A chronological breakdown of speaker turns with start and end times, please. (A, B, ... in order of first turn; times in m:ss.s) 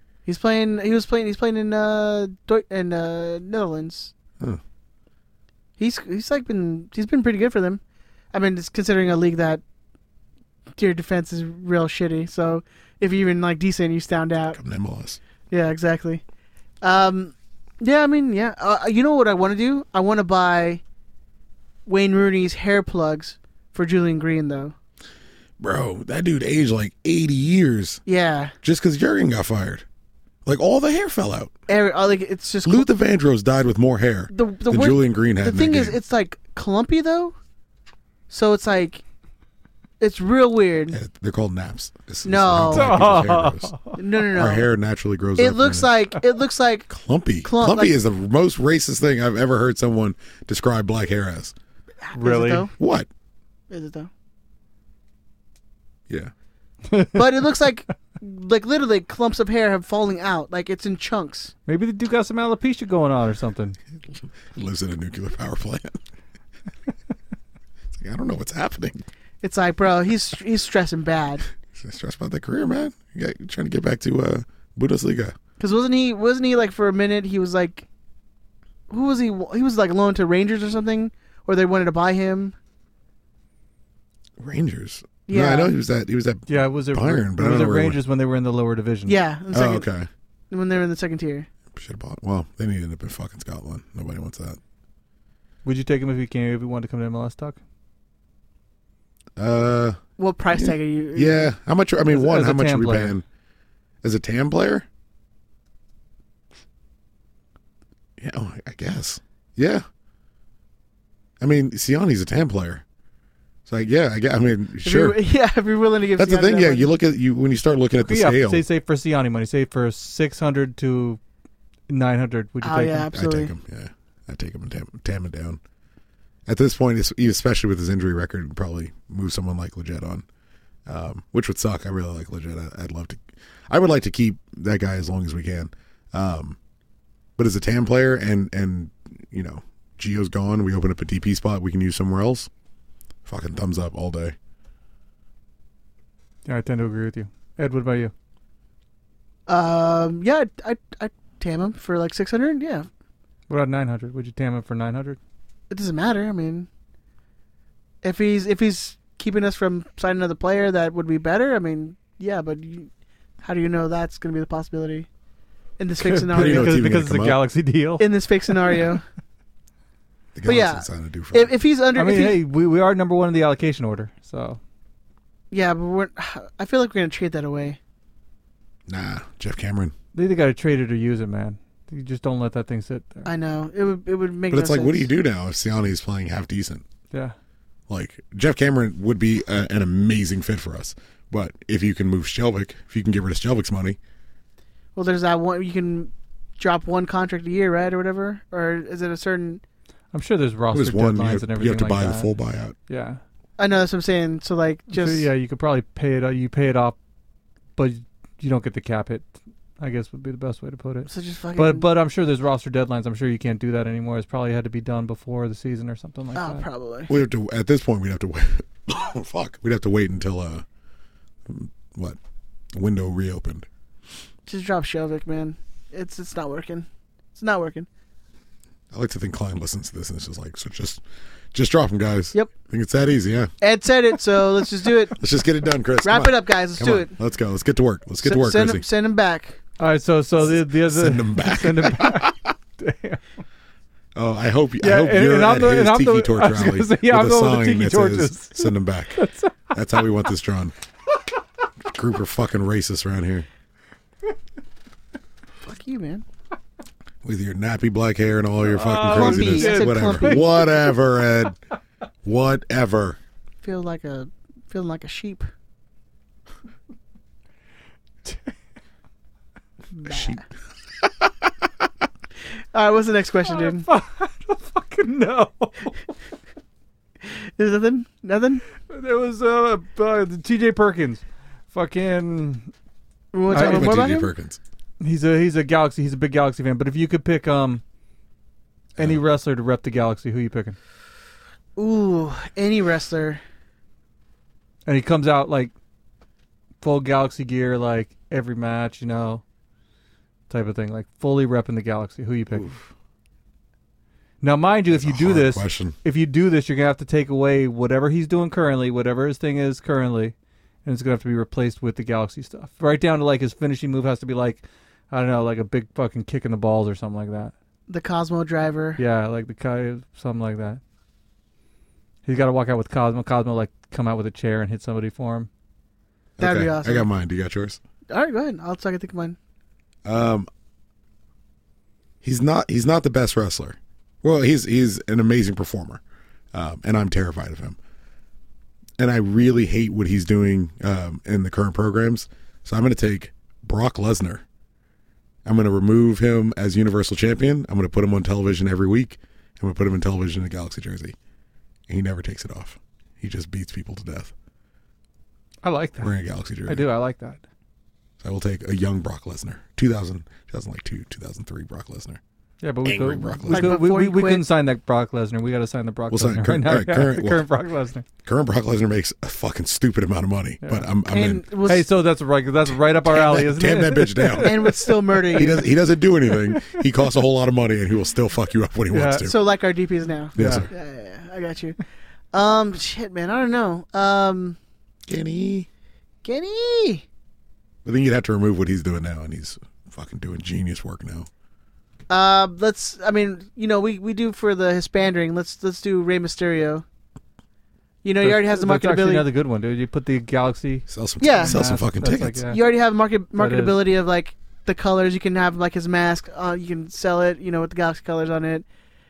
0:00.3-0:04.1 A
0:05.8-0:07.8 A
0:08.3-0:09.6 A
0:10.8-0:14.6 A
0:14.5-0:15.2 B
0:15.5-0:16.2 A
0:16.8-0:20.8 A
0:21.9-0:24.8 A
0:25.6-0:28.0 B
0:28.1-0:28.5 A
0:28.6-0:29.8 B
0:30.4-0:31.5 B
0:31.7-0:32.9 A
0:32.6-0:36.0 B
0:34.3-0:37.4 A
0:38.3-0:39.0 A
0:40.0-0:41.0 A
0:40.9-0:43.8 B
0:42.2-0:42.9 A
0:42.7-0:44.0 C
0:44.0-0:44.7 A
0:44.3-0:46.0 B
0:45.4-0:46.9 A
0:46.9-0:51.6 B
0:47.4-0:47.9 A
0:52.1-0:52.7 A
0:52.1-0:52.7 C
0:52.8-0:53.1 B
0:53.7-0:54.1 A
0:56.9-0:57.2 C
0:57.2-1:01.5 A
1:01.7-1:03.8 C
1:04.5-1:06.0 B
1:07.9-1:09.0 B
1:09.4-1:11.4 A
1:11.7-1:15.4 B
1:15.6-1:17.9 A
1:18.9-1:22.6 A
1:24.4-1:28.0 B
1:25.3-1:25.7 A
1:26.5-1:29.2 C
1:29.1-1:29.9 A
1:29.5-1:30.1 B
1:30.5-1:31.5 A
1:31.7-1:34.6 B
1:35.6-1:37.6 C
1:39.4-1:40.0 B
1:40.2-1:41.5 A
1:40.5-1:43.2 B
1:42.1-1:43.2 C
1:44.0-1:44.9 B
1:48.2-1:49.8 B
1:51.4-1:52.8 B
1:53.7-1:55.2 B
1:54.8-1:56.9 A
1:56.2-1:58.6 B
1:58.0-2:01.2 C
2:01.9-2:03.1 C
2:02.6-2:03.5 A
2:03.1-2:05.6 B
2:06.5-2:10.2 B
2:10.9-2:16.6 B
2:17.4-2:22.5 B
2:23.3-2:24.4 B
2:26.5-2:28.1 C
2:29.5-2:32.9 A
2:33.5-2:35.2 C
2:35.7-2:36.7 A
2:38.0-2:42.9 A
2:43.4-2:45.1 A
2:45.8-2:46.8 A
2:46.0-2:48.8 C
2:46.3-2:47.5 B
2:48.0-2:49.0 A
2:50.4-2:51.5 B
2:50.4-2:52.4 A
2:52.0-2:54.6 C
2:55.5-2:57.8 A
2:58.9-2:59.9 B
3:00.1-3:03.3 C
3:03.3-3:05.1 A
3:04.5-3:06.8 B
3:07.9-3:14.0 B
3:15.0-3:19.6 A
3:20.1-3:22.3 C
3:20.7-3:22.8 B
3:22.9-3:23.2 C
3:23.6-3:25.3 A
3:24.9-3:27.0 C
3:27.8-3:36.7 C
3:31.1-3:31.9 A
3:36.4-3:37.1 A
3:37.1-3:40.6 B
3:41.5-3:42.2 B
3:42.7-3:43.7 B
3:44.5-3:47.9 A
3:48.9-3:53.5 B
3:53.6-3:55.2 A
3:55.2-3:58.8 B
3:56.0-3:57.1 A
3:58.2-3:59.6 A
3:59.8-4:03.4 C
4:00.4-4:02.4 B
4:04.2-4:09.2 B
4:04.8-4:09.6 C
4:09.7-4:10.7 B
4:11.8-4:13.5 B
4:15.6-4:16.2 A
4:17.2-4:21.6 B
4:18.6-4:20.9 C
4:19.0-4:20.5 A
4:22.2-4:23.2 B
4:23.6-4:25.5 A
4:30.0-4:30.4 A
4:30.1-4:30.4 B
4:32.7-4:33.8 A
4:33.5-4:36.0 C
4:37.3-4:38.6 A
4:38.9-4:42.7 C
4:43.3-4:44.3 A
4:43.5-4:44.6 B
4:43.5-4:44.1 C
4:45.0-4:47.8 C
4:49.0-4:50.8 C
4:51.8-4:53.4 A
4:54.9-4:55.7 C
4:56.8-4:59.4 C
5:00.5-5:02.7 C
5:02.5-5:02.9 B
5:04.4-5:17.5 C
5:04.9-5:06.0 B
5:17.9-5:19.0 A
5:19.0-5:20.8 C
5:22.3-5:25.5 C
5:26.4-5:27.8 B
5:26.4-5:27.1 A
5:28.1-5:29.4 A
5:30.0-5:30.5 B
5:32.2-5:36.0 B
5:36.5-5:37.8 B
5:39.0-5:44.4 B
5:45.4-5:51.2 B
5:51.9-5:54.3 B
5:55.6-5:56.1 C
5:56.0-5:56.9 B
5:56.7-5:57.4 C
5:58.2-6:02.2 B
6:02.6-6:08.0 C
6:02.8-6:03.8 B
6:03.5-6:04.5 A
6:06.1-6:07.5 B
6:08.2-6:11.5 B
6:10.6-6:10.9 C
6:11.1-6:11.9 A
6:11.6-6:15.4 C
6:13.0-6:14.8 B
6:14.4-6:15.7 A
6:15.3-6:19.4 B
6:16.3-6:16.8 C
6:18.9-6:19.3 C
6:19.2-6:21.8 A
6:20.4-6:20.7 B
6:20.4-6:20.7 C
6:22.3-6:24.6 A
6:25.1-6:25.7 B
6:26.2-6:27.0 A
6:27.8-6:31.3 B
6:32.1-6:36.8 A
6:38.0-6:39.3 A
6:38.2-6:42.6 C
6:40.9-6:42.4 B
6:41.2-6:41.6 A
6:42.5-6:48.6 A
6:43.4-6:43.8 C